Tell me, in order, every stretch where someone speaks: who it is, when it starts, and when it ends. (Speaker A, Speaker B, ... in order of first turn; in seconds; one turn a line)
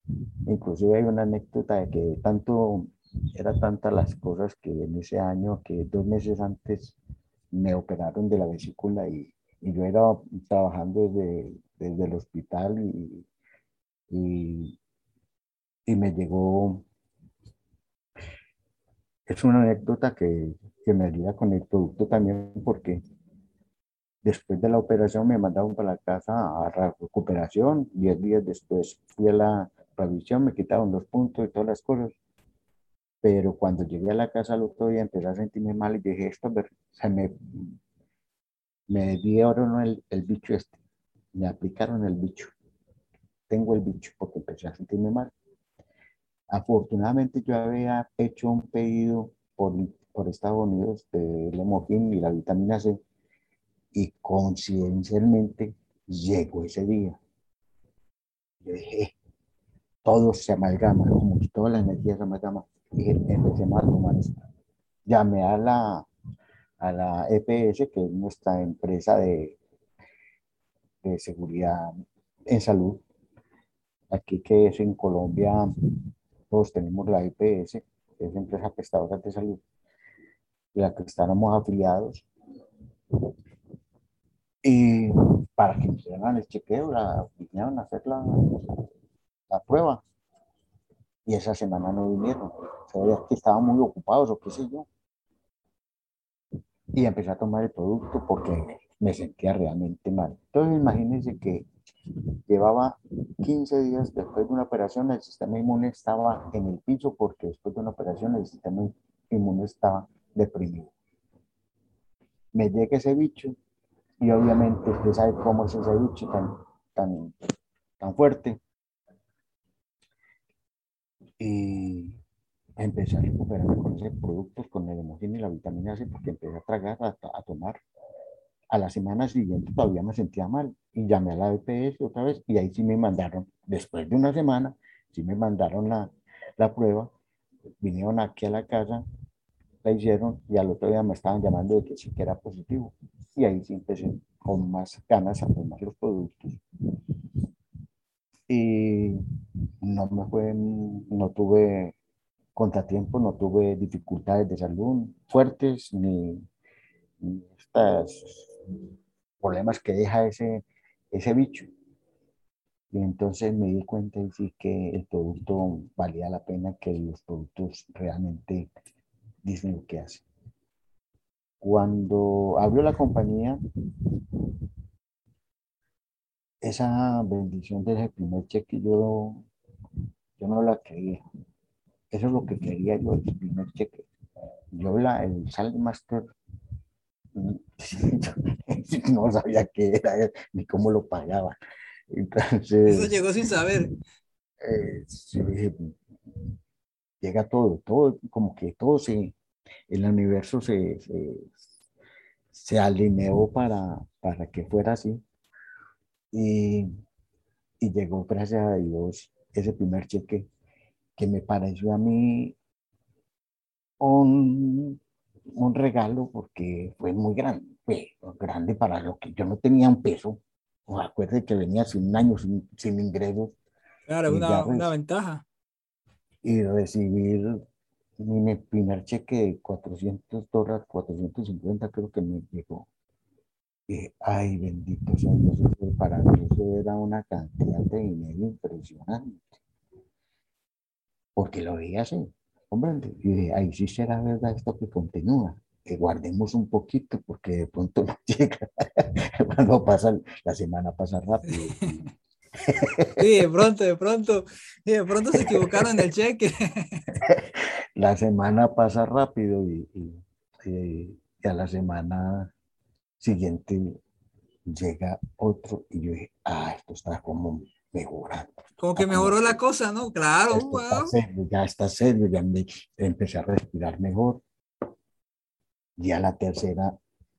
Speaker A: 0.5-7.0
Speaker A: 7.5-13.2
Speaker A: 14.1-14.8
Speaker A: 15.9-16.8
Speaker A: 19.3-23.0
Speaker A: 24.2-32.1
Speaker A: 33.2-37.7
Speaker A: 38.9-40.8
Speaker A: 41.4-42.5
Speaker A: 43.5-45.3
Speaker A: 46.5-53.0
Speaker A: 53.9-57.2
Speaker A: 58.6-59.1
Speaker A: 60.0-64.4
Speaker A: 65.1-66.1
Speaker A: 66.8-69.6
Speaker A: 71.0-71.9
Speaker A: 72.5-73.0
Speaker A: 74.1-75.7
Speaker A: 76.5-79.6
Speaker A: 80.7-82.3
Speaker A: 84.6-88.7
Speaker A: 89.5-90.0
Speaker A: 91.2-94.9
Speaker A: 96.9-101.7
Speaker A: 102.5-110.9
Speaker A: 112.5-113.6
Speaker A: 114.2-117.3
Speaker A: 118.0-118.6
Speaker A: 121.4-122.2
Speaker A: 122.8-127.8
Speaker A: 128.7-137.1
Speaker A: 137.8-139.0
Speaker A: 139.8-146.6
Speaker A: 148.5-149.2
Speaker A: 149.8-151.9
Speaker A: 152.6-156.4
Speaker A: 157.2-158.8
Speaker A: 159.4-161.7
Speaker A: 162.9-168.7
Speaker A: 169.4-170.2
Speaker A: 171.6-173.6
Speaker A: 176.6-179.5
Speaker A: 180.4-181.2
Speaker A: 182.1-184.1
Speaker A: 184.7-186.2
Speaker A: 187.3-191.6
Speaker A: 192.1-193.2
Speaker B: 192.9-193.9
Speaker A: 194.6-195.9
Speaker A: 197.2-199.3
Speaker A: 199.9-201.5
Speaker A: 202.5-205.2
Speaker A: 206.3-206.9
Speaker A: 207.8-210.5
Speaker A: 211.2-212.6
Speaker A: 214.0-215.0
Speaker A: 215.5-223.6
Speaker B: 224.1-225.4
Speaker A: 224.3-224.9
Speaker A: 226.4-227.6
Speaker A: 228.2-232.9
Speaker A: 233.9-239.4
Speaker A: 241.4-252.1
Speaker B: 251.5-251.9
Speaker A: 252.6-253.2
Speaker B: 253.2-257.0
Speaker A: 255.3-255.9
Speaker A: 257.2-262.5
Speaker A: 263.2-264.0
Speaker A: 264.7-269.6
Speaker B: 268.8-271.1
Speaker A: 270.5-274.4
Speaker A: 276.0-276.9